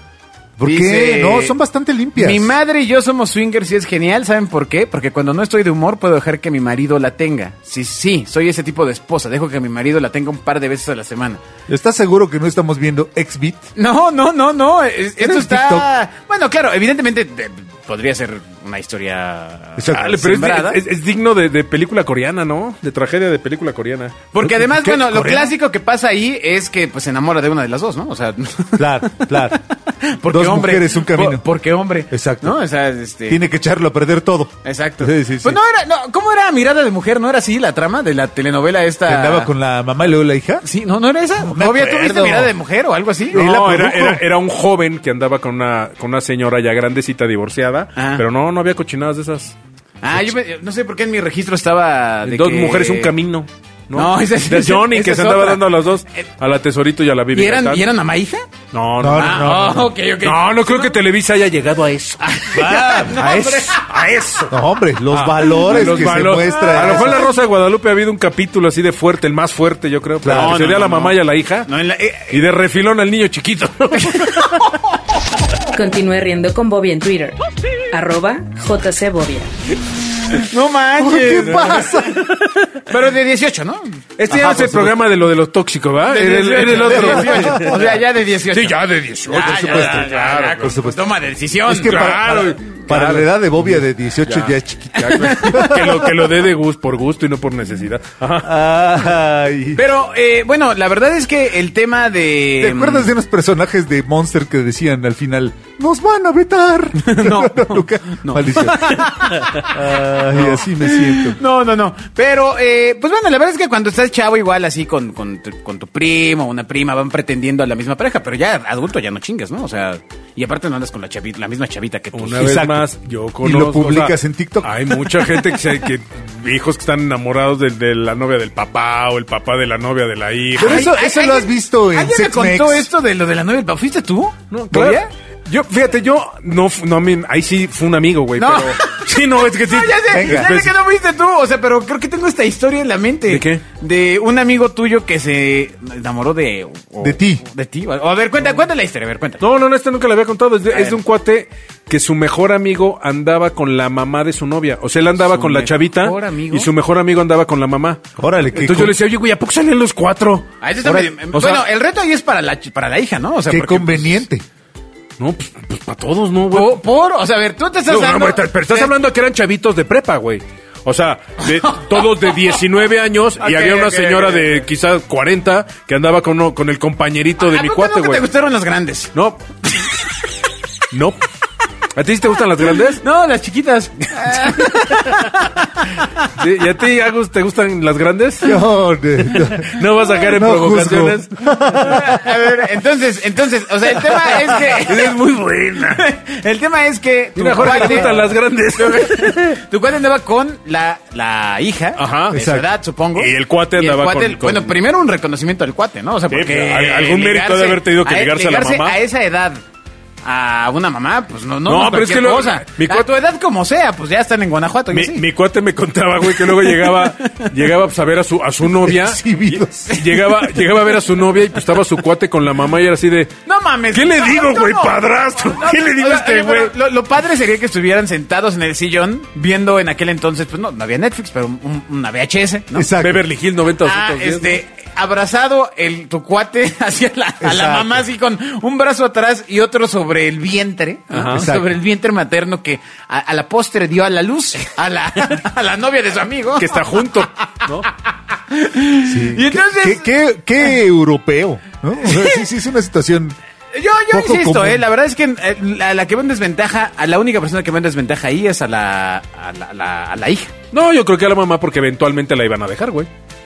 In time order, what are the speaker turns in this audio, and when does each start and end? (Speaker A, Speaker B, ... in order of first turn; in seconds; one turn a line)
Speaker A: 0.6-2.5
Speaker B: 0.7-1.5
Speaker B: 2.2-11.4
Speaker A: 11.7-13.7
Speaker B: 13.8-20.8
Speaker A: 15.2-15.9
Speaker A: 19.8-20.1
Speaker C: 19.9-24.2
Speaker B: 24.3-33.5
Speaker A: 24.4-25.5
Speaker A: 28.8-29.6
Speaker A: 30.3-31.4
Speaker A: 32.1-32.6
Speaker A: 33.3-35.6
Speaker B: 34.6-39.5
Speaker A: 39.1-40.7
Speaker B: 40.6-43.4
Speaker A: 41.4-42.5
Speaker A: 43.3-44.2
Speaker C: 43.3-49.6
Speaker B: 48.0-48.2
Speaker B: 50.0-53.1
Speaker C: 52.2-57.8
Speaker B: 53.9-55.8
Speaker B: 57.3-58.5
Speaker C: 58.7-64.5
Speaker A: 59.0-60.0
Speaker B: 59.2-61.0
Speaker B: 62.2-64.0
Speaker A: 62.5-63.3
Speaker A: 64.5-67.3
Speaker C: 65.1-71.7
Speaker B: 65.6-67.3
Speaker A: 70.2-70.7
Speaker B: 70.3-72.4
Speaker C: 72.3-74.6
Speaker B: 74.0-74.7
Speaker D: 75.7-77.4
Speaker D: 77.9-79.5
Speaker B: 80.3-82.3
Speaker A: 81.0-82.3
Speaker C: 81.4-82.5
Speaker B: 82.9-84.9
Speaker C: 84.2-88.0
Speaker B: 86.1-92.0
Speaker A: 86.5-87.8
Speaker C: 88.5-90.8
Speaker A: 89.3-91.1
Speaker A: 91.7-96.1
Speaker C: 91.7-93.6
Speaker C: 94.2-98.5
Speaker B: 95.2-95.8
Speaker A: 98.4-99.8
Speaker B: 99.8-103.1
Speaker A: 102.6-111.4
Speaker B: 107.0-122.6
Speaker C: 122.1-130.9
Speaker A: 122.3-122.9
Speaker A: 123.4-125.0
Speaker B: 130.6-135.1
Speaker A: 130.6-132.9
Speaker C: 134.5-140.7
Speaker B: 138.4-149.4
Speaker A: 140.1-140.6
Speaker C: 143.3-143.6
Speaker A: 147.0-147.4
Speaker C: 149.4-161.6
Speaker B: 150.7-151.0
Speaker B: 155.2-156.7
Speaker A: 158.2-159.0
Speaker B: 160.6-164.2
Speaker A: 163.5-164.4
Speaker C: 165.2-166.8
Speaker B: 166.5-168.9
Speaker C: 167.9-178.2
Speaker B: 171.5-172.2
Speaker B: 173.4-174.7
Speaker B: 177.4-179.1
Speaker C: 179.1-179.4
Speaker C: 180.9-181.2
Speaker C: 182.0-183.0
Speaker B: 183.0-186.0
Speaker C: 186.4-188.6
Speaker A: 188.4-192.2
Speaker C: 189.3-191.8
Speaker B: 191.8-195.2
Speaker C: 194.1-196.0
Speaker B: 195.9-209.6
Speaker C: 197.4-199.6
Speaker C: 202.0-202.5
Speaker A: 202.3-202.7
Speaker C: 203.2-204.8
Speaker C: 206.3-209.0
Speaker B: 210.2-215.3
Speaker C: 211.7-213.1
Speaker C: 214.9-223.3
Speaker B: 216.3-217.4
Speaker A: 218.8-219.9
Speaker B: 219.9-220.6
Speaker B: 223.5-233.0
Speaker C: 223.9-226.7
Speaker A: 232.7-233.2
Speaker C: 233.0-234.6
Speaker B: 233.8-250.1
Speaker A: 237.4-238.0
Speaker C: 241.1-241.5
Speaker A: 241.3-241.8
Speaker C: 246.6-247.9
Speaker A: 249.1-253.4
Speaker B: 252.1-252.4
Speaker B: 253.7-260.6
Speaker A: 254.1-254.8
Speaker C: 260.7-263.1